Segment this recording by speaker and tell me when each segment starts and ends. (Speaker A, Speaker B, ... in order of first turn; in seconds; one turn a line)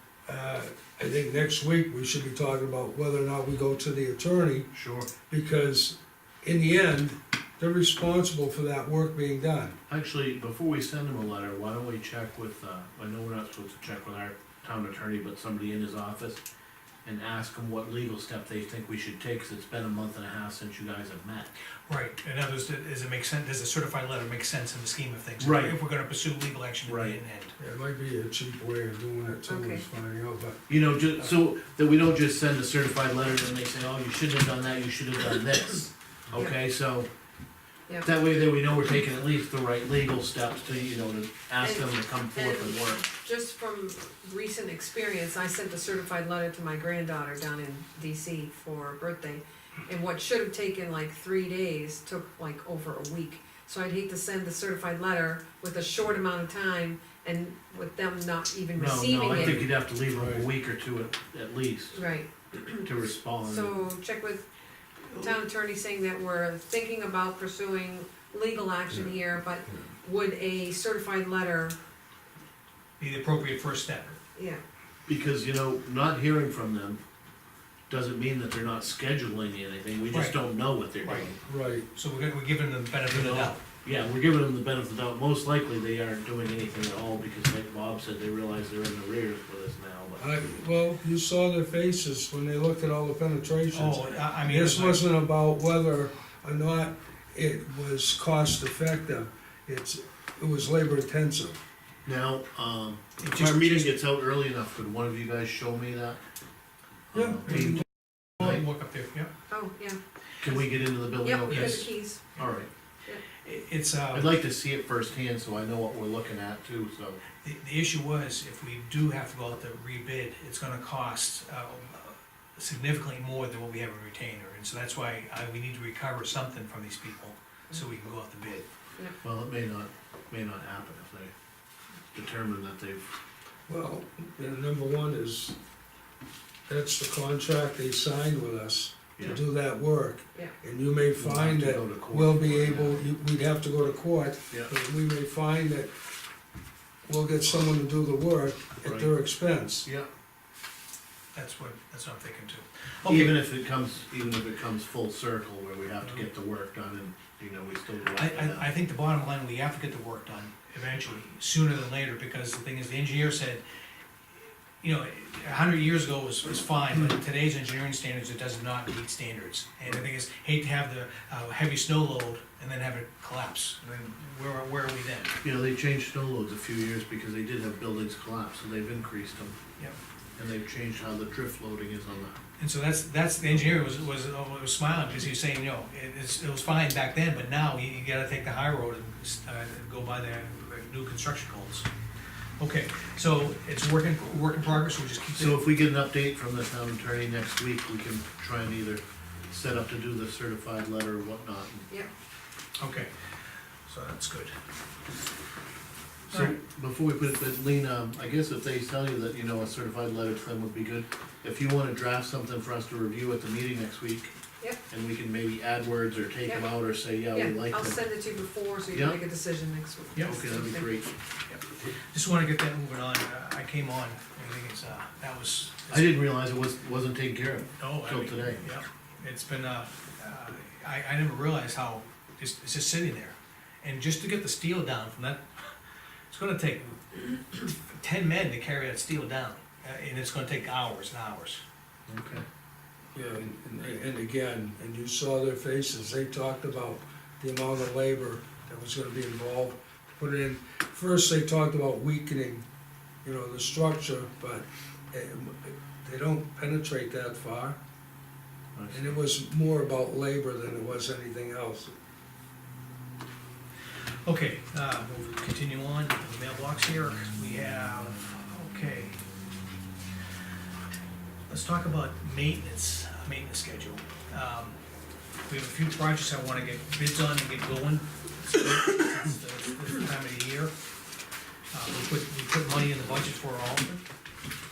Speaker A: 0.3-4.7
Speaker B: 4.7-5.1
Speaker A: 5.3-9.7
Speaker B: 9.9-16.4
Speaker B: 17.0-21.6
Speaker C: 21.9-27.5
Speaker B: 25.4-25.7
Speaker B: 26.9-27.2
Speaker A: 27.6-30.7
Speaker D: 29.5-29.8
Speaker B: 30.7-37.1
Speaker B: 38.0-43.0
Speaker D: 41.6-59.6
Speaker B: 58.8-62.0
Speaker A: 59.3-60.5
Speaker D: 61.9-62.9
Speaker B: 62.8-63.8
Speaker D: 63.4-64.5
Speaker D: 65.1-71.8
Speaker C: 73.0-74.2
Speaker D: 74.3-74.6
Speaker B: 75.0-77.0
Speaker B: 77.9-81.4
Speaker C: 80.1-80.4
Speaker C: 81.0-81.3
Speaker A: 81.5-81.8
Speaker C: 81.9-83.6
Speaker B: 83.1-90.3
Speaker A: 90.2-101.6
Speaker C: 93.7-95.1
Speaker B: 102.0-106.2
Speaker C: 103.2-104.0
Speaker B: 107.1-107.8
Speaker A: 107.1-107.7
Speaker C: 107.5-107.8
Speaker C: 108.4-109.3
Speaker D: 109.5-110.0
Speaker B: 110.4-111.9
Speaker D: 111.2-112.2
Speaker C: 111.5-111.8
Speaker B: 112.4-112.7
Speaker C: 113.4-114.3
Speaker B: 114.1-117.2
Speaker C: 117.4-128.7
Speaker B: 129.2-131.3
Speaker B: 132.1-133.0
Speaker A: 133.7-135.6
Speaker A: 136.7-145.9
Speaker B: 141.2-143.0
Speaker A: 147.0-149.8
Speaker B: 148.8-149.1
Speaker C: 151.3-153.3
Speaker B: 153.0-158.7
Speaker C: 158.1-163.6
Speaker C: 164.8-175.4
Speaker B: 175.4-179.6
Speaker B: 180.4-182.4
Speaker C: 182.6-191.9
Speaker B: 183.5-183.9
Speaker C: 192.6-195.6
Speaker B: 195.3-201.9
Speaker C: 202.8-203.1
Speaker C: 203.8-204.5
Speaker B: 206.3-214.3
Speaker B: 214.9-218.0
Speaker D: 217.3-220.9
Speaker B: 218.9-219.2
Speaker B: 220.2-221.1
Speaker C: 221.5-226.2
Speaker B: 225.9-228.6
Speaker C: 227.8-235.7
Speaker C: 236.3-241.6
Speaker B: 242.1-242.4
Speaker A: 243.1-252.6
Speaker A: 253.2-257.8
Speaker B: 258.7-259.2
Speaker A: 258.9-261.9
Speaker C: 264.2-269.2
Speaker C: 271.5-274.8
Speaker C: 275.5-280.7
Speaker C: 281.7-284.0